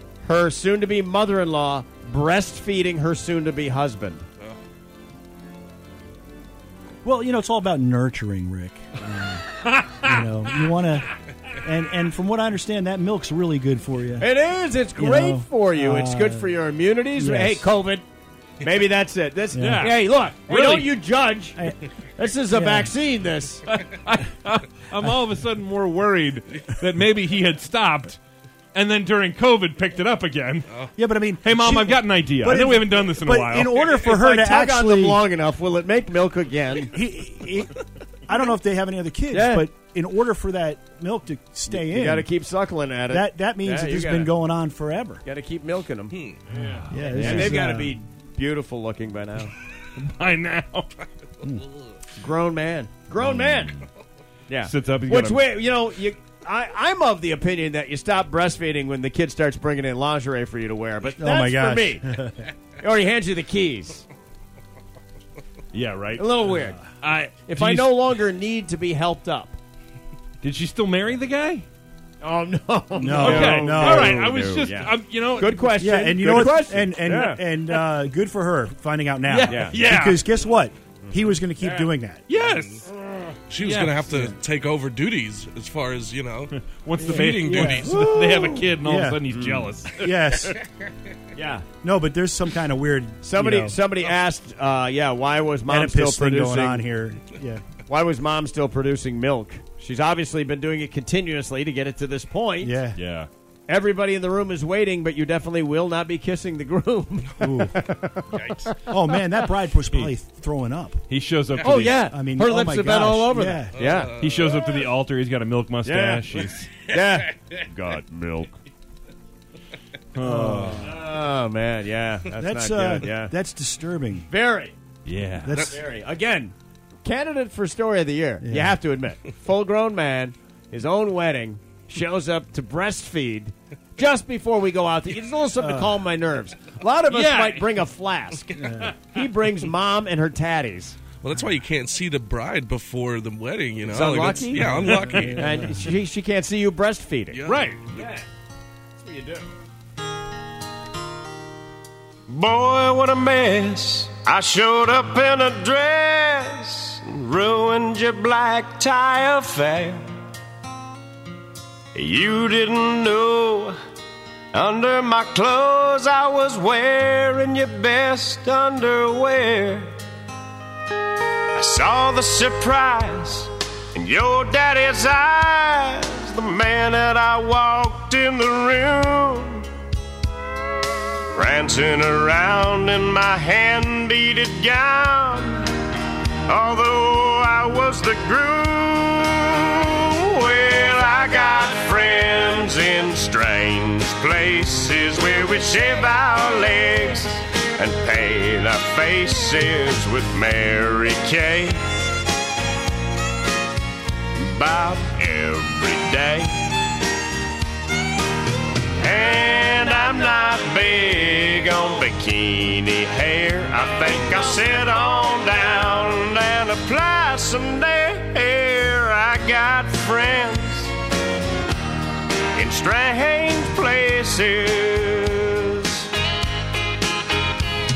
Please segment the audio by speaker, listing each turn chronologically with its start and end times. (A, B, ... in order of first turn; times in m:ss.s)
0:00.2-0:04.2 A
0:07.0-0:09.4 B
0:10.0-0:11.1 B
0:11.6-0:14.3 B
0:14.2-0:18.0 A
0:15.0-0:16.6 B
0:17.1-0:17.6 B
0:18.6-0:21.6 A
0:19.5-0:19.9 B
0:19.6-0:20.9 C
0:22.2-0:23.6 A
0:22.5-0:22.9 B
0:23.7-0:28.2 C
0:28.7-0:30.8 C
0:31.0-0:35.2 B
0:31.4-0:33.7 C
0:33.8-0:37.0 A
0:36.9-0:37.7 B
0:38.3-0:42.3 B
0:39.3-0:39.7 A
0:41.7-0:44.3 A
0:43.1-0:45.2 B
0:45.2-0:46.2 A
0:46.1-0:46.6 D
0:46.6-0:47.5 C
0:46.9-0:48.0 B
0:47.1-0:49.5 A
0:50.0-0:51.0 C
0:52.2-0:53.8 A
0:54.5-1:02.1 A
0:54.6-0:55.5 C
1:01.2-1:02.5 B
1:02.8-1:04.1 A
1:05.7-1:06.3 C
1:06.2-1:09.6 A
1:07.0-1:07.9 C
1:10.4-1:11.7 C
1:12.2-1:17.4 A
1:13.0-1:14.2 B
1:13.1-1:15.7 C
1:15.8-1:22.2 B
1:19.3-1:20.2 C
1:19.4-1:19.8 A
1:21.0-1:21.9 A
1:22.3-1:22.8 C
1:22.4-1:23.3 A
1:22.5-1:22.8 D
1:23.5-1:26.5 D
1:23.6-1:24.0 C
1:24.0-1:24.4 B
1:26.7-1:30.5 C
1:27.0-1:28.3 B
1:27.2-1:27.9 D
1:27.9-1:28.3 A
1:28.8-1:29.2 B
1:29.3-1:29.6 A
1:29.9-1:30.5 B
1:31.3-1:31.6 A
1:31.8-1:33.8 B
1:33.2-1:36.8 A
1:35.7-1:37.6 B
1:37.8-1:42.7 A
1:42.6-1:43.0 B
1:43.0-1:43.3 C
1:43.7-1:49.2 A
1:47.4-1:47.9 B
1:48.7-1:51.0 B
1:51.1-1:52.1 C
1:51.6-1:54.1 A
1:52.0-1:53.9 B
1:53.8-1:54.6 D
1:54.1-1:56.7 C
1:55.8-1:58.5 A
2:00.2-2:00.9 C
2:00.2-2:01.0 B
2:00.8-2:03.3 A
2:02.4-2:04.3 B
2:04.3-2:04.8 A
2:05.0-2:05.6 C
2:05.4-2:05.8 B
2:05.5-2:21.0 A
2:08.4-2:08.8 B
2:15.6-2:16.0 B
2:17.1-2:17.7 C
2:18.5-2:18.9 B
2:21.2-2:25.5 D
2:23.9-2:27.4 A
2:27.3-2:28.0 D
2:27.4-2:27.8 C
2:27.9-2:28.2 A
2:29.0-2:29.5 A
2:32.3-2:40.0 E
2:41.9-2:43.7 E
2:44.5-2:49.9 E
2:51.6-2:59.6 E
3:01.3-3:05.6 E
3:06.5-3:21.8 E
3:24.4-3:26.7 E
3:29.0-3:40.9 E
3:42.6-3:46.1 E